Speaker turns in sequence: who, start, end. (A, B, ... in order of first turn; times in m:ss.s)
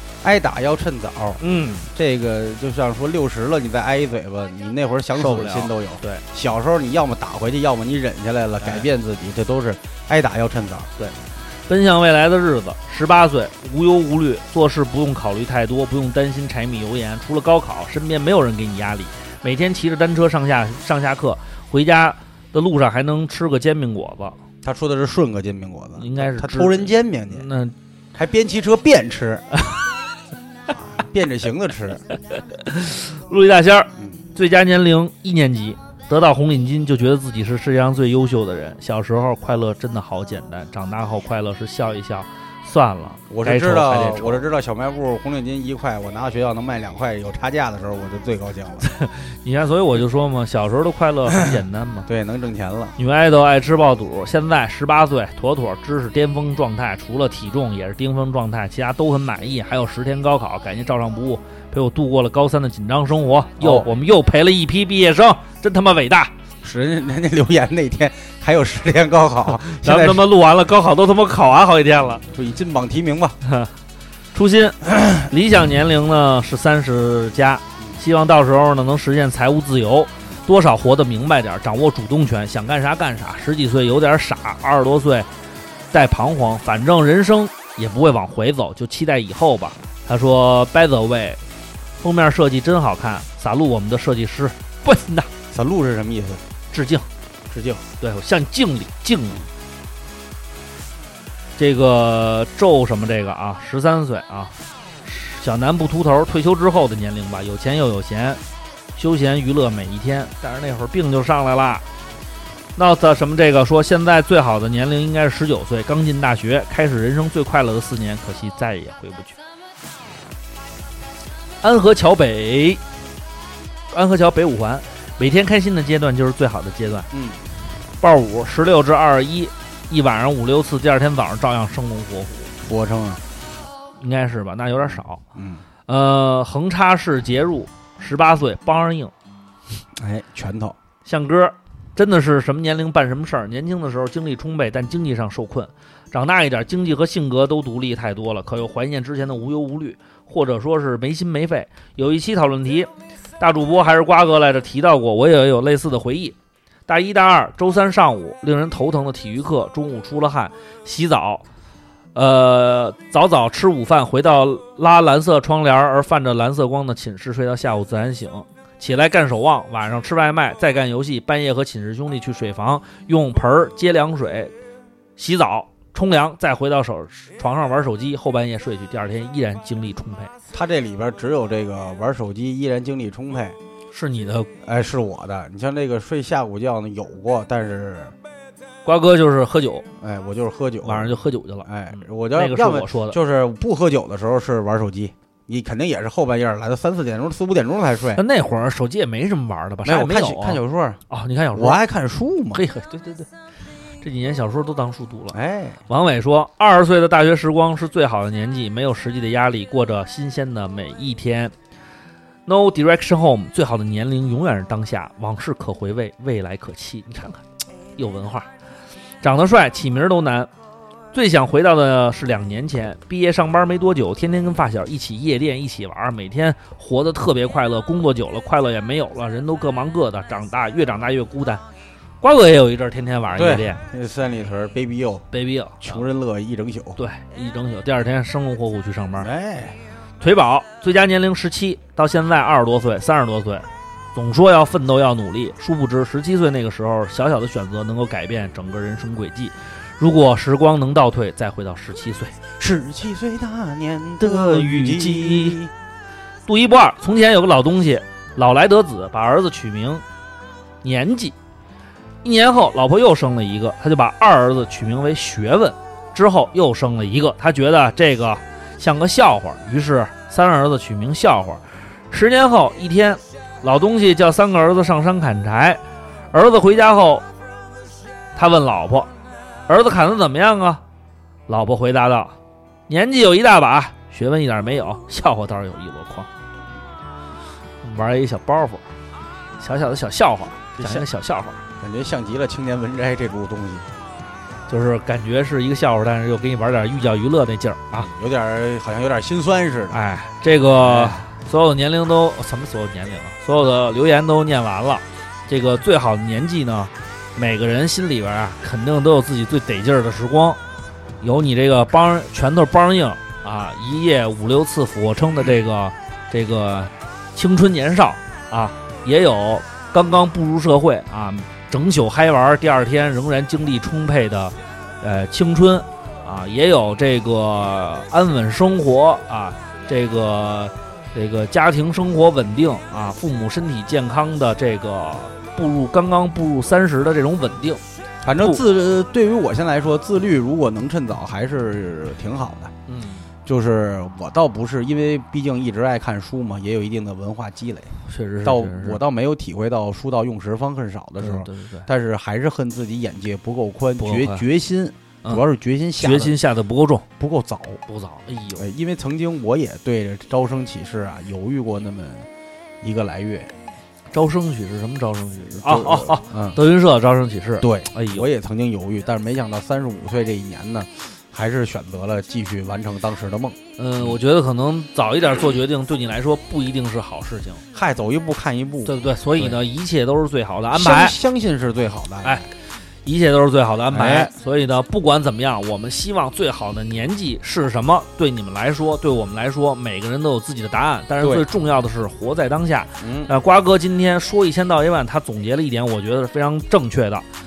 0:00.2-0:10.9 A
0:01.4-0:01.9 B
0:05.1-0:06.2 B
0:08.6-0:08.9 B
0:11.0-0:24.4 B
0:24.6-0:27.5 A
0:26.0-0:27.7 B
0:28.1-0:29.5 A
0:30.7-0:32.0 A
0:32.6-0:44.4 B
0:34.0-0:34.2 A
0:43.3-0:48.8 A
0:48.8-0:52.1 B
0:52.1-0:52.9 A
0:53.0-1:06.3 B
1:03.6-1:03.9 A
1:06.6-1:10.3 A
1:09.5-1:12.2 B
1:12.2-1:13.4 A
1:13.4-1:13.7 B
1:14.3-1:25.3 B
1:25.9-1:31.4 B
1:32.0-1:35.3 B
1:35.5-1:36.4 A
1:36.7-1:37.1 B
1:37.5-1:37.8 A
1:38.0-1:39.4 B
1:41.6-1:44.5 B
1:45.0-1:48.4 B
1:49.0-1:51.8 B
1:52.8-1:59.4 B
2:01.6-2:02.8 B
2:03.9-2:07.1 B
2:07.1-2:07.4 A
2:08.0-2:12.5 B
2:12.6-2:13.2 A
2:14.0-2:15.2 B
2:14.9-2:15.6 A
2:15.9-2:19.1 B
2:20.0-2:20.8 A
2:21.0-2:32.9 B
2:33.4-2:36.4 B
2:36.9-2:41.4 B
2:42.1-2:54.5 B
2:55.2-3:00.3 B
3:00.5-3:03.6 A
3:03.9-3:04.5 B
3:04.6-3:08.1 A
3:08.8-3:09.8 B
3:10.0-3:18.2 A
3:10.8-3:13.2 B
3:18.2-3:21.8 B
3:19.8-3:21.0 A
3:21.5-3:22.6 A
3:22.5-3:23.3 B
3:24.0-3:25.4 B
3:25.3-3:25.8 A
3:25.9-3:31.5 B
3:32.4-3:37.4 B
3:38.0-3:38.5 B
3:39.2-3:40.5 B
3:41.1-3:51.6 B
3:52.2-3:53.8 B
3:53.4-3:55.2 A
3:55.3-3:56.0 B
3:55.8-3:57.0 A
3:57.0-3:59.3 B
3:59.2-3:59.8 A
4:00.2-4:12.4 B
4:12.6-4:15.7 A
4:14.2-4:15.6 B
4:16.5-4:20.0 B
4:20.8-4:21.4 B
4:22.2-4:35.8 B
4:36.3-4:37.3 B
4:38.4-4:39.1 B
4:39.7-4:40.8 B
4:41.5-4:42.4 B
4:42.9-4:46.3 B
4:47.8-4:48.8 B
4:49.6-4:51.6 B
4:50.8-4:51.1 A
4:51.8-4:53.9 A
4:54.7-4:58.1 B
4:57.9-5:00.0 A
4:59.9-5:10.6 B
5:00.8-5:01.2 A
5:11.2-5:37.8 B
5:38.2-5:42.7 A
5:38.4-5:38.6 B
5:42.9-5:43.3 B
5:43.4-5:56.4 A
5:48.1-5:49.0 B
5:51.2-5:51.9 B
5:54.0-5:54.4 B
5:56.0-5:57.1 B
5:57.2-5:57.8 A
5:57.9-5:58.7 B
5:58.6-6:02.3 A
6:02.8-6:03.5 A
6:04.1-6:08.3 B
6:05.6-6:06.6 A
6:07.6-6:14.2 A
6:13.8-6:17.6 B
6:17.7-6:19.6 A
6:18.8-6:21.2 B
6:20.7-6:22.5 A
6:23.0-6:37.3 B
6:23.9-6:24.3 A
6:31.2-6:31.5 A
6:33.0-6:33.3 A